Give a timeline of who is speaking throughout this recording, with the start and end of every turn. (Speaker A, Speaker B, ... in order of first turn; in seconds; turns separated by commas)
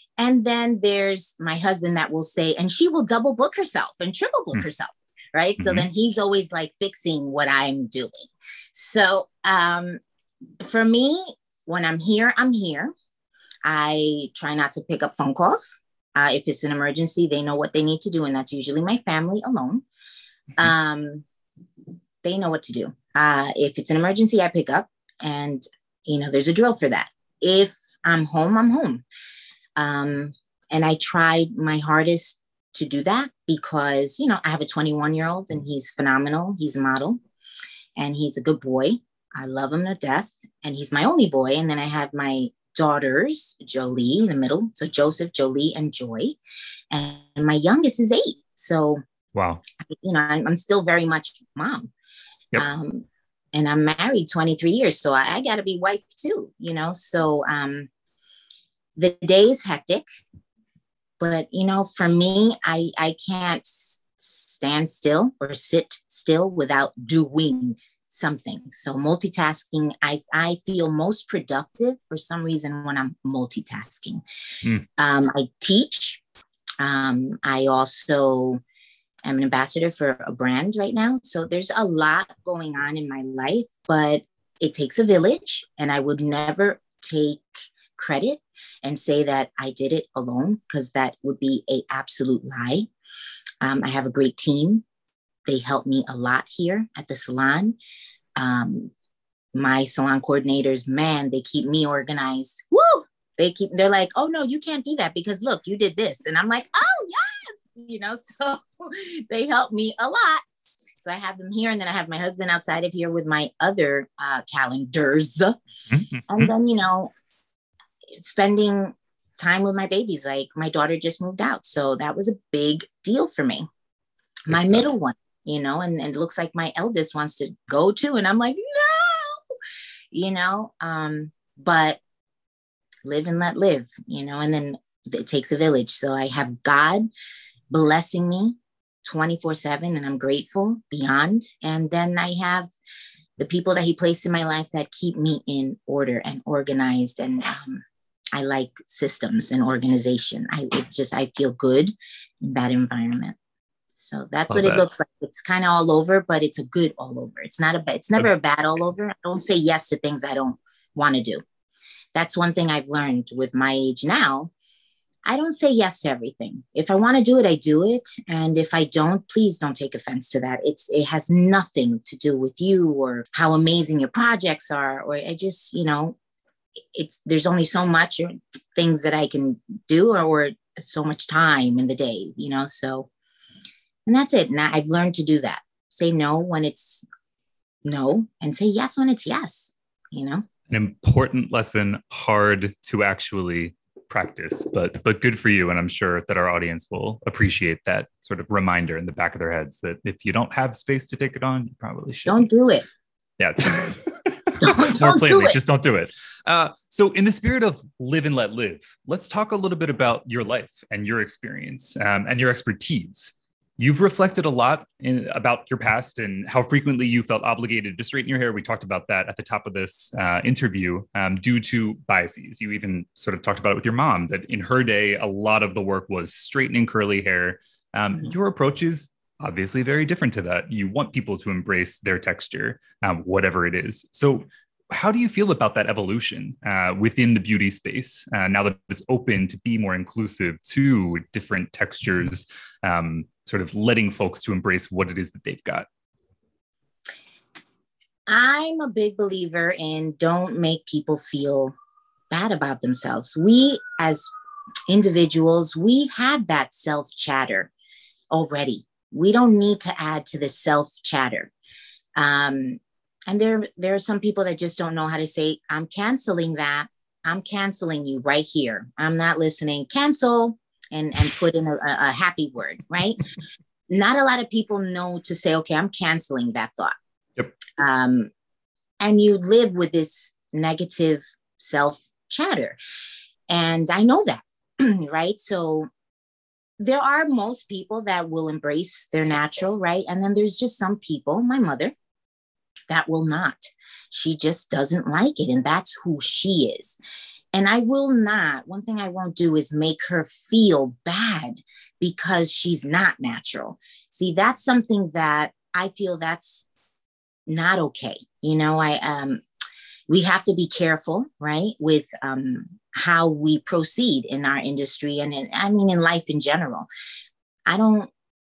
Speaker A: 0.2-10.0, Speaker B: 5.6-5.8, Speaker A: 10.6-12.9, Speaker A: 13.6-19.8, Speaker A: 20.6-21.2, Speaker A: 22.2-29.0, Speaker A: 29.8-37.2, Speaker A: 38.0-46.4, Speaker A: 46.9-49.0, Speaker B: 49.3-49.6, Speaker A: 49.8-51.9, Speaker A: 52.5-57.9, Speaker A: 59.0-60.0, Speaker A: 61.2-74.2, Speaker A: 75.0-76.2, Speaker A: 76.8-78.6, Speaker A: 79.2-92.9, Speaker A: 93.6-94.8, Speaker A: 95.5-97.8, Speaker A: 98.4-98.9, Speaker A: 99.5-110.4, Speaker A: 111.0-115.6, Speaker B: 115.9-116.5, Speaker A: 116.2-117.1, Speaker A: 118.1-123.7, Speaker B: 124.5-124.8, Speaker A: 124.5-129.4, Speaker A: 130.1-132.0, Speaker A: 133.0-137.1, Speaker A: 137.7-142.7, Speaker A: 143.4-147.8, Speaker A: 148.3-153.4, Speaker A: 153.9-161.4, Speaker B: 154.5-154.8, Speaker A: 162.1-164.5, Speaker A: 165.2-176.2, Speaker A: 176.9-183.1, Speaker A: 184.1-187.1, Speaker A: 187.8-190.4, Speaker B: 190.7-202.5, Speaker A: 202.2-202.8, Speaker B: 203.4-245.9, Speaker A: 204.6-205.6, Speaker A: 248.3-251.7, Speaker A: 252.3-254.3, Speaker A: 254.9-257.7, Speaker A: 258.3-261.5, Speaker A: 262.1-273.2, Speaker A: 273.9-276.9, Speaker A: 277.8-278.3, Speaker A: 279.0-282.8, Speaker A: 283.5-285.9, Speaker A: 286.8-291.9, Speaker A: 292.9-297.0, Speaker A: 297.5-306.7, Speaker A: 307.5-309.4, Speaker A: 310.1-316.9, Speaker A: 317.7-318.1